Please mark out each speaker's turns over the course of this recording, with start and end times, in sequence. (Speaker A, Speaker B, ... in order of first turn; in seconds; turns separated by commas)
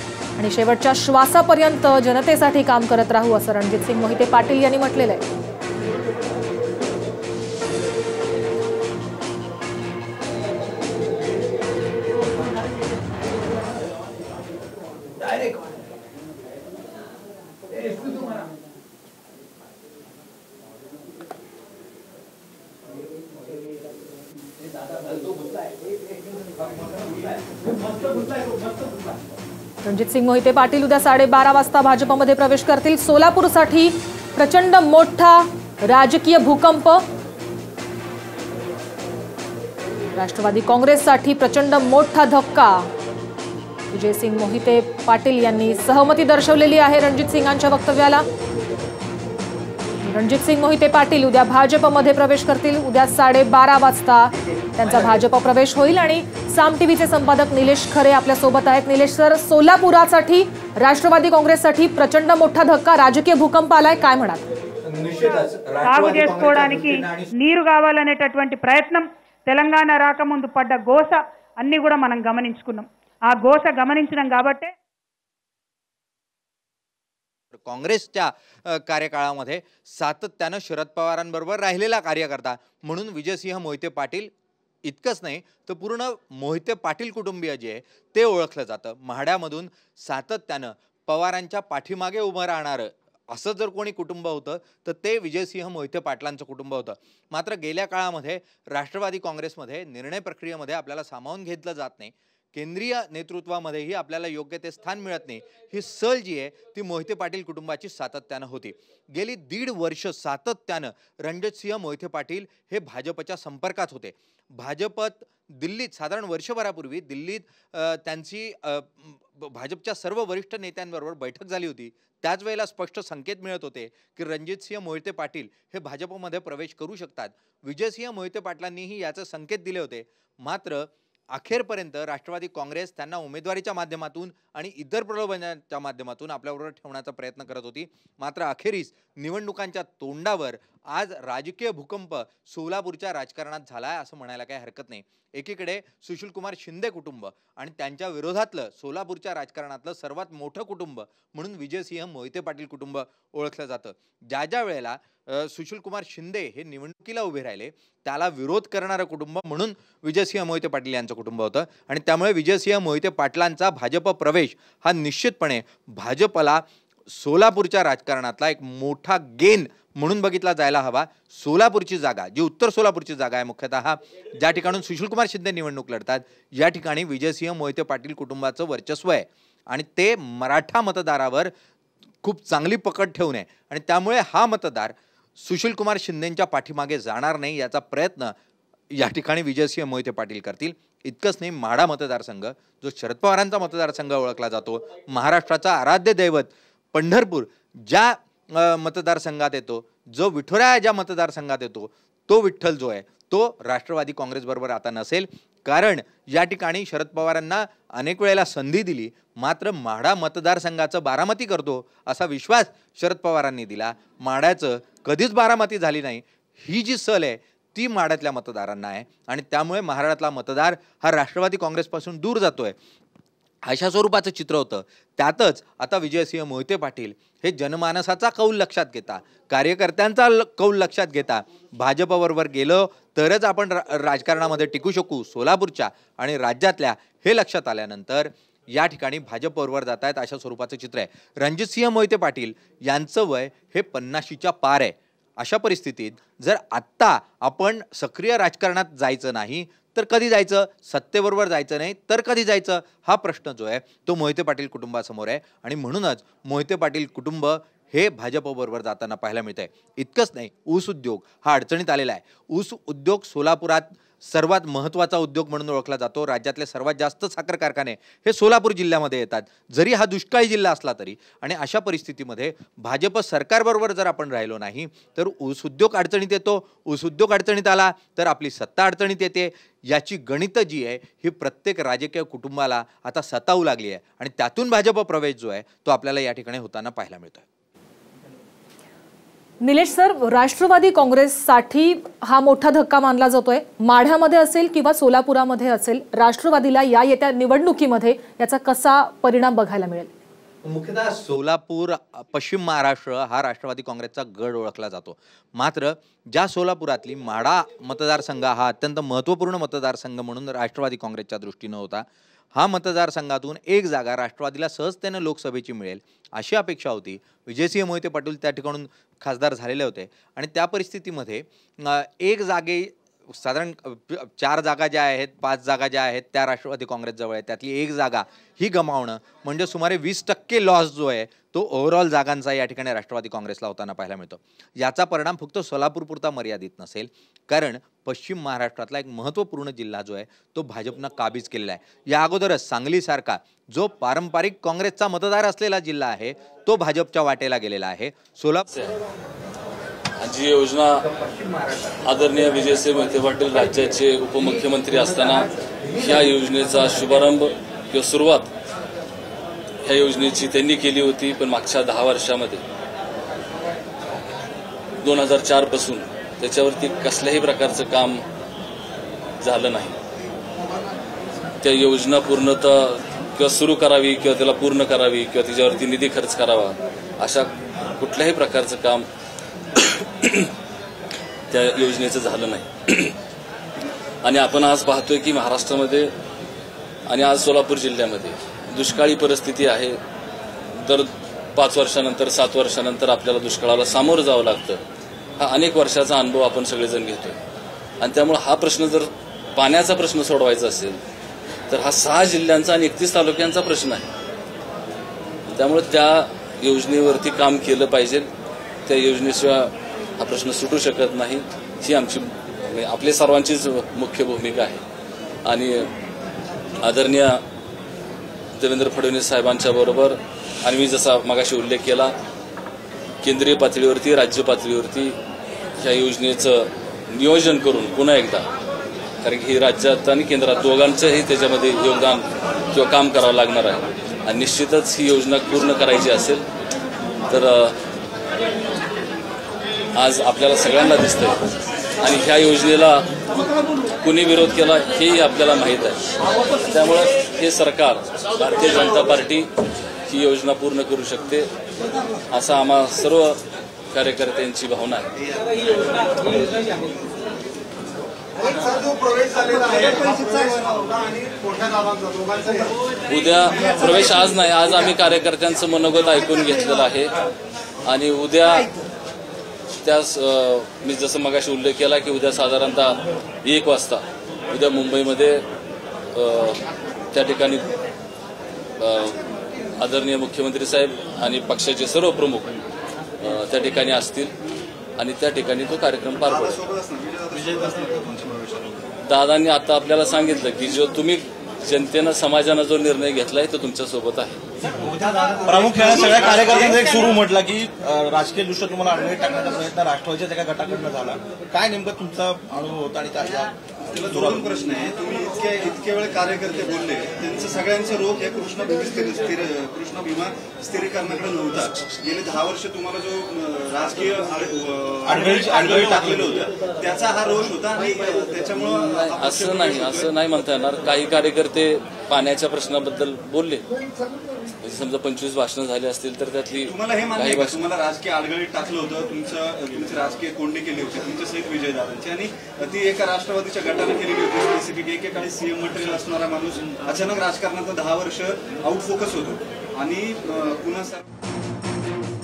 Speaker A: 0.3-5.2, Speaker B: 15.2-15.7, Speaker B: 17.9-18.2, Speaker A: 29.8-37.0, Speaker A: 40.1-42.9, Speaker A: 43.9-48.2, Speaker A: 50.0-64.4, Speaker B: 64.8-67.3, Speaker C: 65.8-74.7, Speaker B: 77.5-84.3, Speaker B: 84.8-181.5, Speaker B: 182.2-188.3, Speaker B: 188.9-222.8, Speaker B: 223.7-287.4, Speaker A: 289.6-300.1, Speaker B: 300.6-348.6, Speaker D: 350.2-351.1, Speaker D: 352.0-358.5, Speaker D: 359.8-362.6, Speaker D: 365.0-368.2, Speaker D: 369.4-369.9, Speaker D: 371.6-379.1, Speaker D: 379.8-380.5, Speaker D: 381.5-383.1, Speaker D: 384.2-386.1, Speaker D: 387.1-390.0, Speaker D: 390.7-394.8, Speaker D: 395.4-397.4, Speaker D: 398.0-401.0, Speaker D: 401.7-404.1, Speaker D: 405.5-408.3, Speaker D: 408.9-414.8, Speaker D: 415.4-415.9, Speaker D: 416.8-417.4, Speaker D: 418.6-422.1, Speaker D: 423.2-425.1, Speaker D: 425.8-428.5, Speaker D: 429.2-436.4, Speaker D: 437.3-437.7, Speaker D: 440.0-441.4, Speaker D: 442.0-443.1, Speaker D: 444.0-446.0, Speaker D: 446.6-449.5, Speaker D: 450.1-451.5, Speaker D: 452.3-453.4, Speaker D: 453.9-455.1, Speaker E: 455.2-456.8, Speaker E: 458.7-462.6, Speaker D: 463.1-467.1, Speaker E: 463.5-464.2, Speaker D: 467.8-468.7, Speaker D: 469.8-475.4, Speaker D: 476.1-477.7, Speaker D: 478.8-479.2, Speaker D: 479.8-482.6, Speaker D: 483.2-484.3, Speaker D: 485.0-486.6, Speaker E: 486.2-488.9, Speaker D: 489.1-494.4, Speaker F: 494.6-504.5, Speaker E: 494.8-497.1, Speaker E: 503.9-520.1, Speaker F: 515.0-516.4, Speaker D: 519.0-523.6, Speaker D: 524.6-527.7, Speaker E: 526.7-541.0